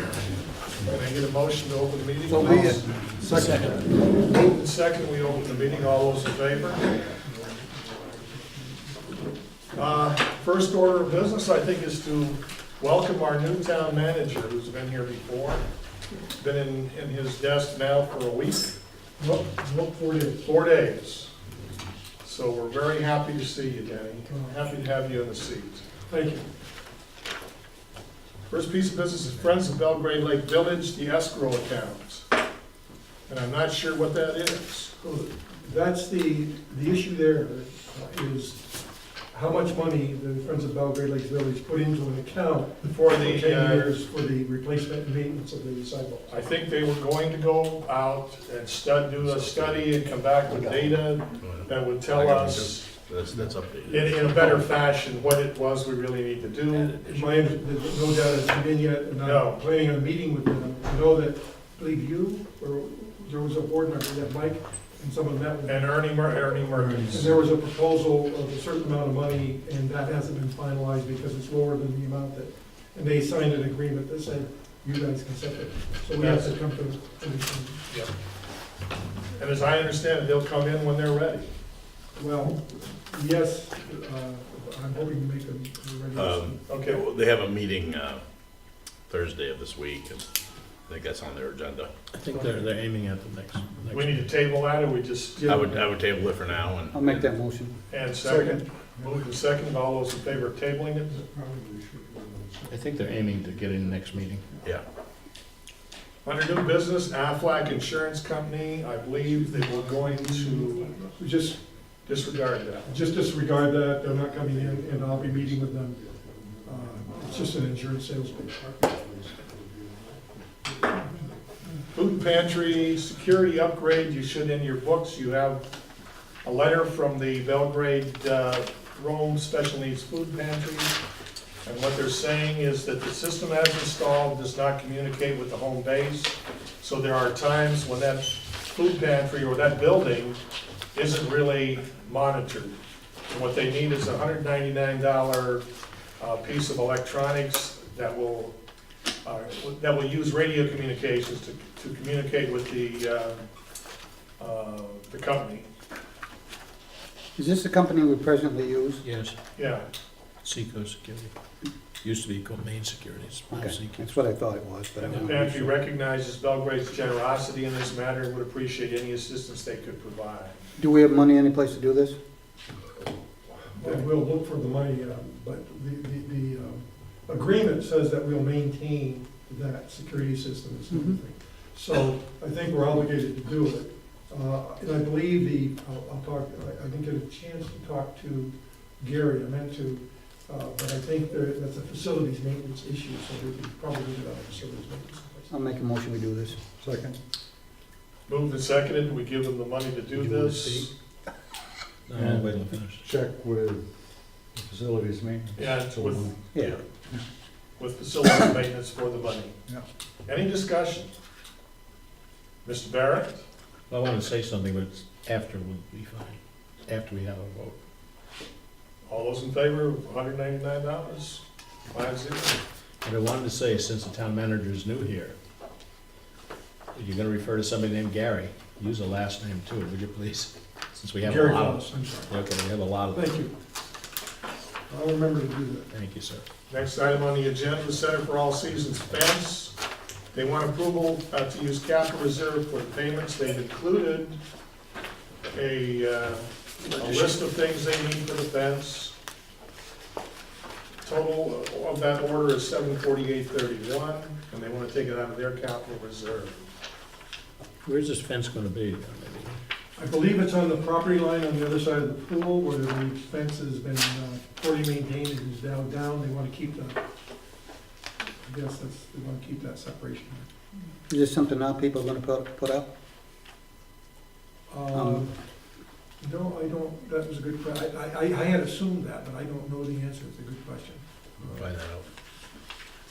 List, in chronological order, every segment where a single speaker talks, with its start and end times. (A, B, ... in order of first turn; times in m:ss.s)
0:00.8-0:02.9 A
0:02.2-0:03.6 B
0:03.4-0:03.8 C
0:03.9-0:06.9 A
0:06.9-0:08.9 D
0:09.7-0:15.7 A
0:16.4-0:18.8 A
0:19.2-0:20.4 D
0:20.4-0:21.3 A
0:22.2-0:25.8 A
0:24.3-0:24.6 D
0:26.1-0:26.5 D
0:28.5-0:32.3 A
0:33.3-0:34.9 A
0:35.0-0:38.8 D
0:39.3-0:46.4 D
0:43.0-0:43.9 A
0:46.3-0:52.9 A
0:49.2-0:49.9 E
0:51.4-0:54.6 E
0:53.9-0:57.0 A
0:56.7-0:57.2 E
0:57.0-1:17.8 D
0:59.2-0:59.6 A
1:05.6-1:07.4 A
1:06.8-1:07.2 F
1:16.2-1:16.6 A
1:19.3-1:21.5 A
1:22.1-1:26.6 D
1:26.1-1:28.2 E
1:26.6-1:27.0 A
1:29.1-1:30.2 E
1:30.9-1:31.9 E
1:32.1-1:34.3 C
1:32.3-1:32.6 D
1:33.9-1:35.8 A
1:35.4-1:35.8 D
1:35.4-1:37.3 E
1:36.9-1:37.8 B
1:37.9-1:41.2 A
1:38.2-1:39.2 F
1:38.2-1:38.6 D
1:41.1-1:43.3 F
1:42.7-1:44.5 C
1:46.2-1:51.0 A
1:49.6-1:51.1 F
1:51.1-1:51.6 D
1:52.0-1:52.9 A
1:52.8-1:56.0 D
1:54.3-1:57.8 F
1:56.6-1:58.7 D
1:58.4-2:01.4 F
2:01.9-2:05.7 A
2:06.4-2:11.0 A
2:11.6-2:20.4 A
2:20.9-2:22.8 A
2:23.3-2:25.6 A
2:26.2-2:28.5 A
2:29.2-2:33.4 A
2:34.4-2:35.7 A
2:37.4-2:39.0 B
2:39.0-2:39.3 C
2:39.6-2:39.8 A
2:40.4-2:41.3 C
2:42.0-2:44.2 C
2:43.5-2:45.7 B
2:45.0-2:50.5 A
2:45.1-2:45.6 C
2:50.8-2:52.2 B
2:53.8-3:15.5 D
3:00.9-3:01.2 B
3:15.5-3:16.6 B
3:16.8-3:17.2 F
3:18.3-3:20.9 A
3:20.2-3:20.8 B
3:20.3-3:20.7 C
3:22.1-3:23.0 C
3:22.1-3:24.0 F
3:24.5-3:26.3 F
3:25.5-3:26.8 A
3:26.5-3:26.8 B
3:27.8-3:29.6 A
3:30.2-3:31.1 A
3:32.6-3:33.4 A
3:33.9-3:37.8 C
3:39.0-3:42.6 A
3:43.0-3:45.3 C
3:46.9-3:53.2 C
3:51.2-3:52.3 D
3:53.1-3:53.5 D
3:54.9-3:55.9 D
3:55.9-3:56.4 C
3:56.7-3:59.8 A
4:00.3-4:04.4 A
4:05.5-4:09.1 A
4:06.8-4:07.4 D
4:11.0-4:16.6 A
4:17.8-4:19.6 C
4:20.0-4:27.0 D
4:28.4-4:30.5 D
4:31.1-4:32.9 B
4:34.7-4:35.4 D
4:34.9-4:35.3 B
4:36.2-4:41.5 D
4:41.5-4:42.0 E